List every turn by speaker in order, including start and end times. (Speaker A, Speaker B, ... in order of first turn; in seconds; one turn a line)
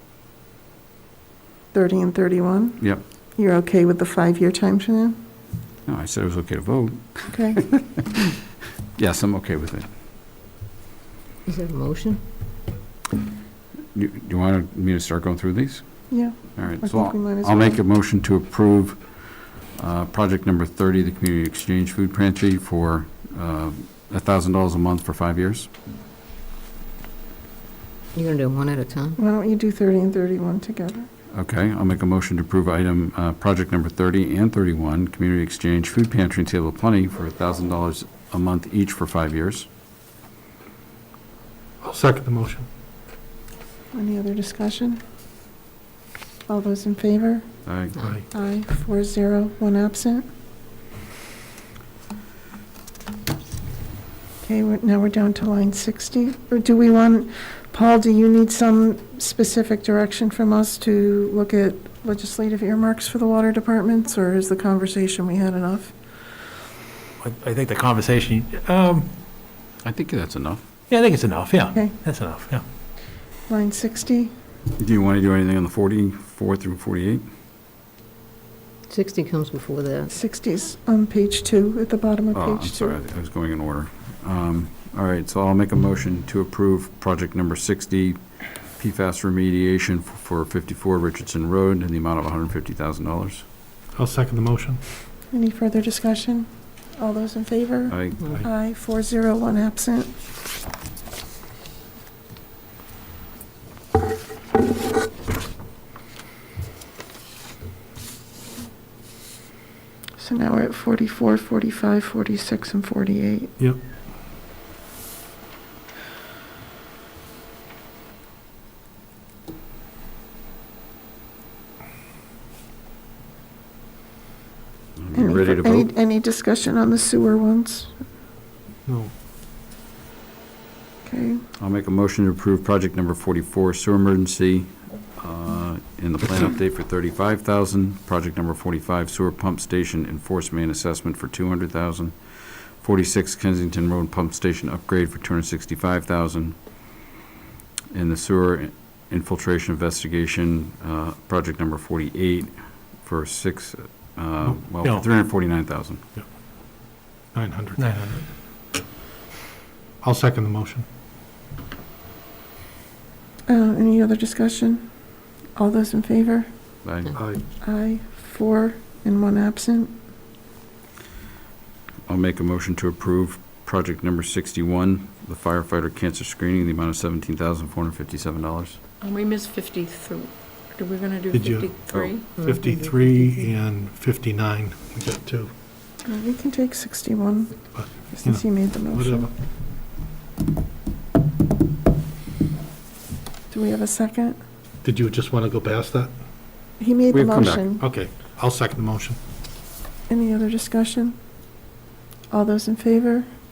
Speaker A: 1.7-5.2
Speaker B: 5.8-8.3
Speaker A: 7.3-7.6
Speaker B: 8.9-9.9
Speaker C: 11.4-12.2
Speaker B: 13.9-25.7
Speaker A: 16.1-17.8
Speaker C: 28.1-29.2
Speaker A: 29.2-31.1
Speaker B: 31.3-39.7
Speaker D: 41.8-42.6
Speaker A: 43.9-45.0
Speaker A: 46.5-47.5
Speaker B: 47.6-48.0
Speaker A: 48.3-50.2
Speaker A: 54.4-65.9
Speaker E: 67.2-69.1
Speaker B: 69.8-70.6
Speaker E: 70.9-72.6
Speaker A: 73.5-74.3
Speaker B: 74.8-77.2
Speaker C: 78.9-80.1
Speaker A: 80.1-83.0
Speaker B: 82.3-88.2
Speaker B: 88.8-93.4
Speaker D: 93.9-94.8
Speaker A: 95.3-100.1
Speaker B: 97.9-98.2
Speaker A: 110.2-113.5
Speaker B: 125.0-125.9
Speaker A: 125.1-127.9
Speaker D: 128.8-129.1
Speaker A: 131.1-131.4
Speaker B: 131.6-142.2
Speaker B: 142.8-146.6
Speaker B: 147.9-156.0
Speaker D: 157.3-158.2
Speaker E: 157.8-158.2
Speaker D: 160.0-160.8
Speaker A: 163.5-164.9
Speaker A: 165.6-166.5
Speaker B: 166.8-167.2
Speaker D: 167.1-167.4
Speaker A: 167.6-169.9
Speaker B: 172.1-178.8
Speaker F: 179.0-182.4
Speaker D: 181.3-185.5
Speaker C: 182.3-183.5
Speaker A: 186.0-189.3
Speaker D: 187.7-189.3
Speaker A: 193.5-194.4
Speaker D: 194.8-196.1
Speaker A: 196.8-197.8
Speaker B: 197.1-197.7
Speaker D: 197.8-199.2
Speaker A: 200.1-201.2
Speaker A: 202.3-203.3